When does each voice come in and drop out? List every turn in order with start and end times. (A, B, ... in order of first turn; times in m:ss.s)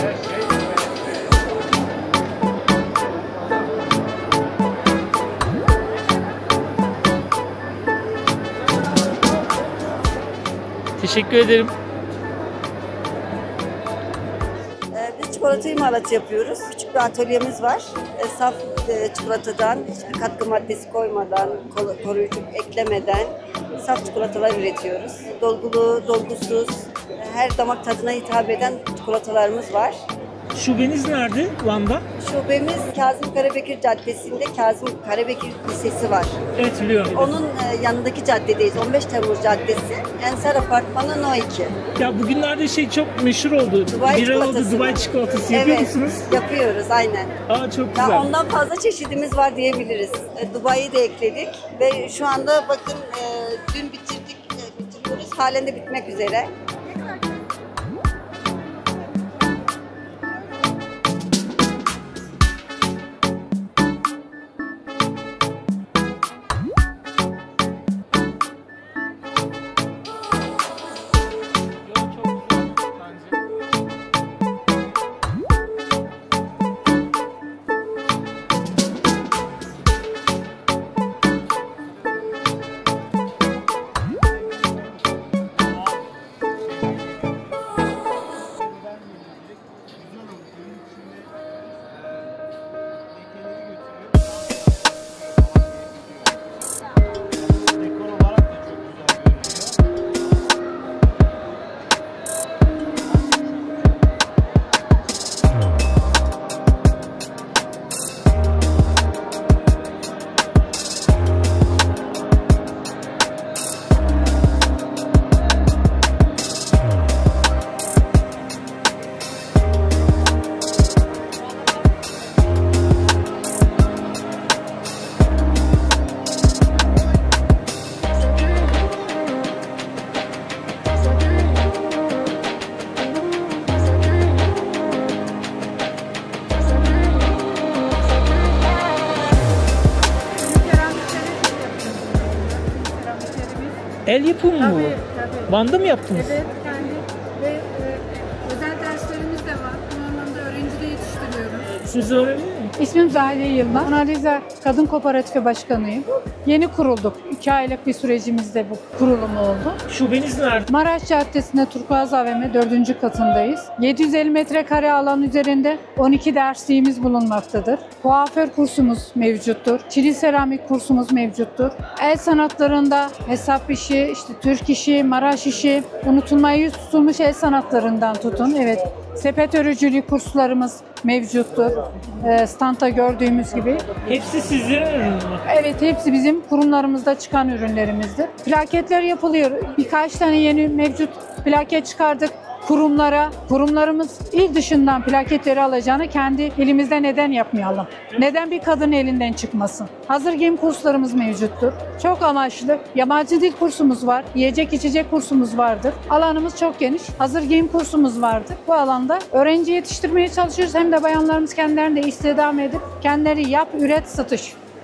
0:11.0-0:11.7 A
0:14.9-0:30.0 B
0:30.5-0:32.0 A
0:32.2-0:36.4 B
0:36.6-0:37.4 A
0:37.2-0:41.8 B
0:42.0-0:46.3 A
0:43.9-0:47.3 B
0:47.5-0:48.3 A
0:48.0-0:56.5 B
2:20.3-2:23.8 C
2:24.1-2:26.4 A
2:24.6-2:25.6 C
2:26.1-2:31.7 C
2:31.7-2:32.7 A
2:32.8-2:39.8 C
2:39.9-2:40.7 A
2:40.7-3:04.0 C
3:03.9-3:05.4 A
3:05.4-3:34.6 C